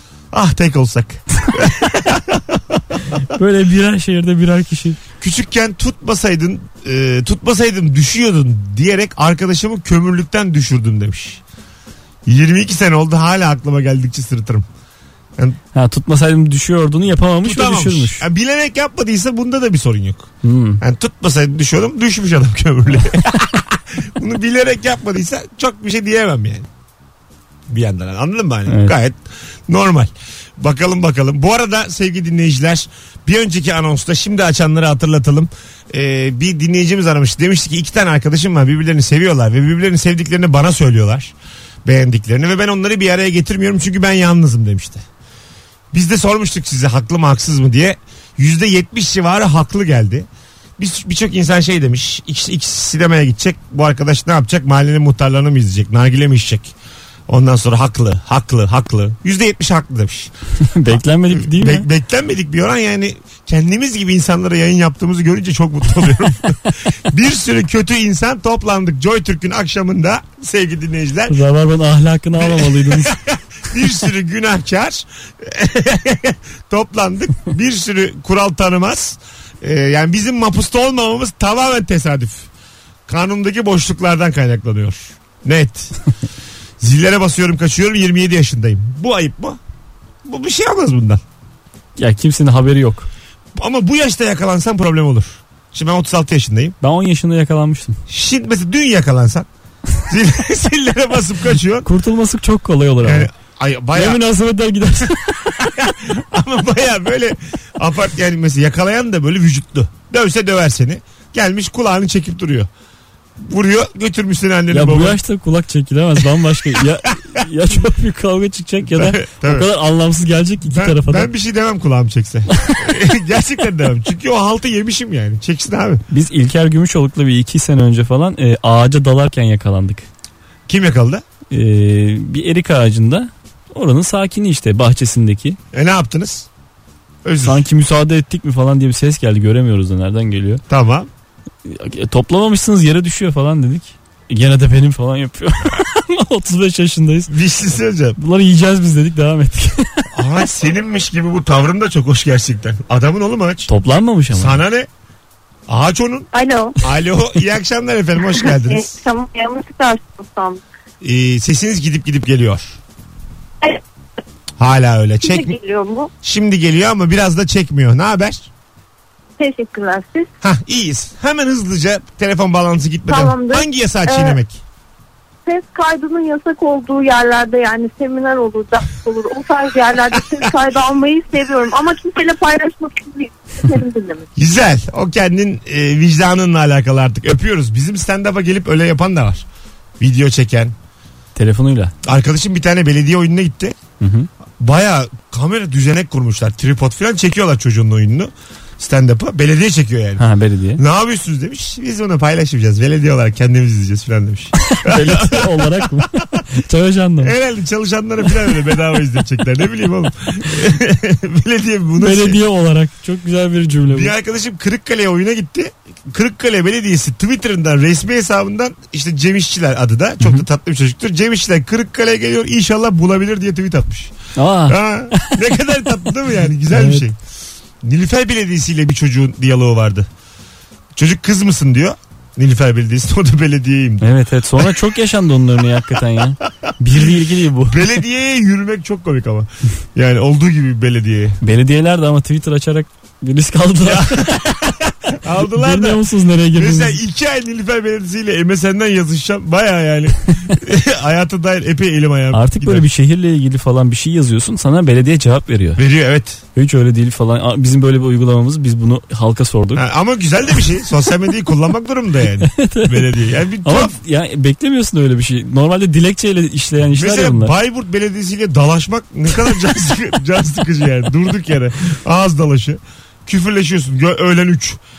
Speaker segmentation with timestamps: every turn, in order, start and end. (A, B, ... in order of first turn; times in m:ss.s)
0:00.3-0:03.0 A
0:03.3-0:05.0 B
0:05.2-0:11.4 A
0:12.3-0:14.7 A
0:15.7-0:18.2 B
0:17.4-0:26.7 A
0:20.4-0:20.8 B
0:27.7-0:41.3 A
0:28.7-0:28.9 B
0:41.8-0:45.0 A
0:45.9-0:56.7 A
0:57.3-1:00.3 A
1:00.6-1:01.8 B
1:00.9-1:11.4 A
1:11.3-1:13.2 B
1:12.4-1:22.5 A
1:23.1-1:25.9 A
1:26.8-1:29.6 A
1:30.2-1:31.2 A
1:32.0-1:33.1 B
1:33.6-1:36.8 A
1:36.8-1:38.0 B
1:38.1-1:39.5 A
1:40.1-1:41.9 A
1:41.8-1:43.3 B
1:43.0-1:44.2 A
1:44.0-1:45.6 B
1:45.6-1:52.7 A
1:53.4-1:55.2 A
1:54.7-2:01.3 B
1:58.9-1:59.7 A
2:00.7-2:06.0 A
2:06.1-2:10.1 B
2:10.7-2:11.2 A
2:11.5-2:15.6 B
2:15.7-2:16.5 A
2:17.2-2:17.6 A
2:17.4-2:20.6 B
2:20.7-2:21.1 A
2:21.7-2:27.3 B
2:27.3-2:28.2 A
2:28.2-2:30.1 B
2:30.2-2:33.7 A
2:33.7-2:34.6 B
2:34.3-2:34.9 A
2:35.7-2:39.0 A
2:36.3-2:36.8 C
2:38.2-2:40.6 C
2:41.0-2:42.8 A
2:44.6-2:45.6 A
2:45.2-2:46.1 C
2:46.2-2:48.5 A
2:49.4-2:50.3 C
2:50.4-2:54.6 A
2:53.1-2:54.4 C
2:55.5-3:04.3 C
3:04.4-3:09.4 A
3:10.0-3:10.7 A
3:11.4-3:11.9 B
3:12.0-3:13.8 A
3:14.0-3:14.3 B
3:14.6-3:26.0 A
3:20.2-3:20.8 B
3:24.6-3:27.3 B
3:27.2-3:32.4 A
3:32.0-3:34.1 B
3:33.9-3:44.2 A
3:44.4-3:45.4 B
3:44.7-3:47.2 A
3:46.7-3:47.1 B
3:47.8-3:50.1 A
3:51.0-3:54.1 A
3:54.0-3:57.9 B
3:56.6-3:57.1 A
3:57.7-4:01.4 A
4:01.4-4:04.5 B
4:03.8-4:06.0 A
4:05.4-4:07.0 B
4:06.5-4:12.8 A
4:12.3-4:15.8 B
4:15.8-4:16.4 A
4:16.6-4:19.8 B
4:19.8-4:24.0 A
4:22.5-4:27.5 B
4:26.9-4:34.8 A